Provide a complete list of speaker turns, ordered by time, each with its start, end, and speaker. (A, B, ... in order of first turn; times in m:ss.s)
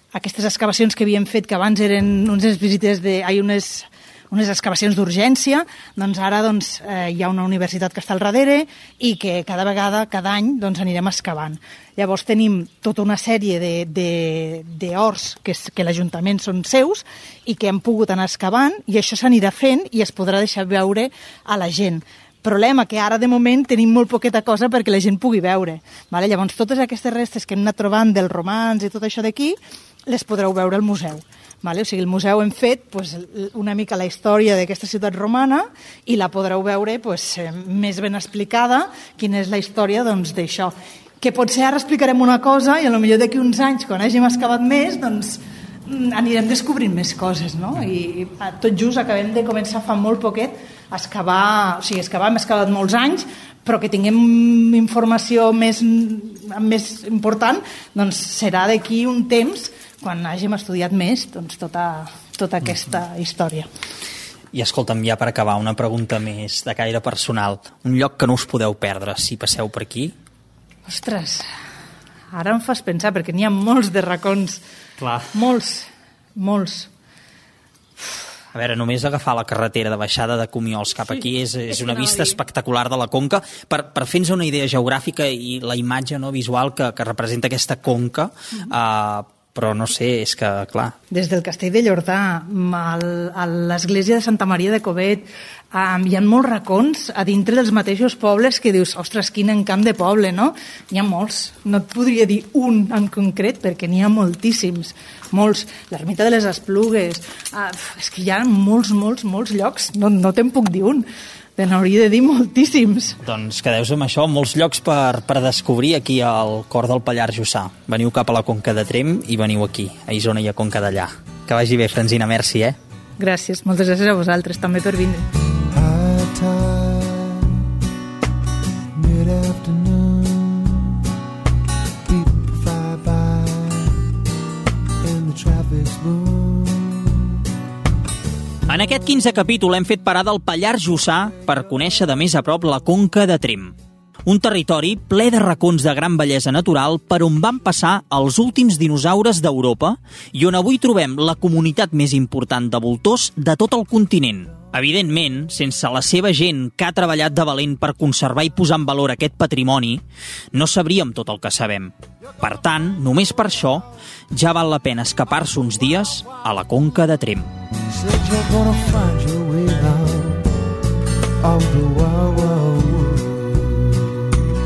0:00.1-1:03.7 A
1:04.5-1:10.1 B
1:10.8-1:11.5 A
1:12.3-1:14.6 A
1:15.0-1:15.3 B
1:15.3-1:16.9 A
1:18.5-1:30.9 B
1:21.7-1:22.4 A
1:31.1-1:53.2 A
1:53.2-2:02.8 B
2:03.2-2:05.3 A
2:05.7-2:07.4 C
2:09.0-2:10.9 C
2:12.1-2:13.9 C
2:15.0-2:17.2 C
2:18.7-2:23.7 B
2:24.2-2:40.0 B
2:40.5-2:47.5 B
2:47.9-2:50.4 C
2:51.4-2:53.7 C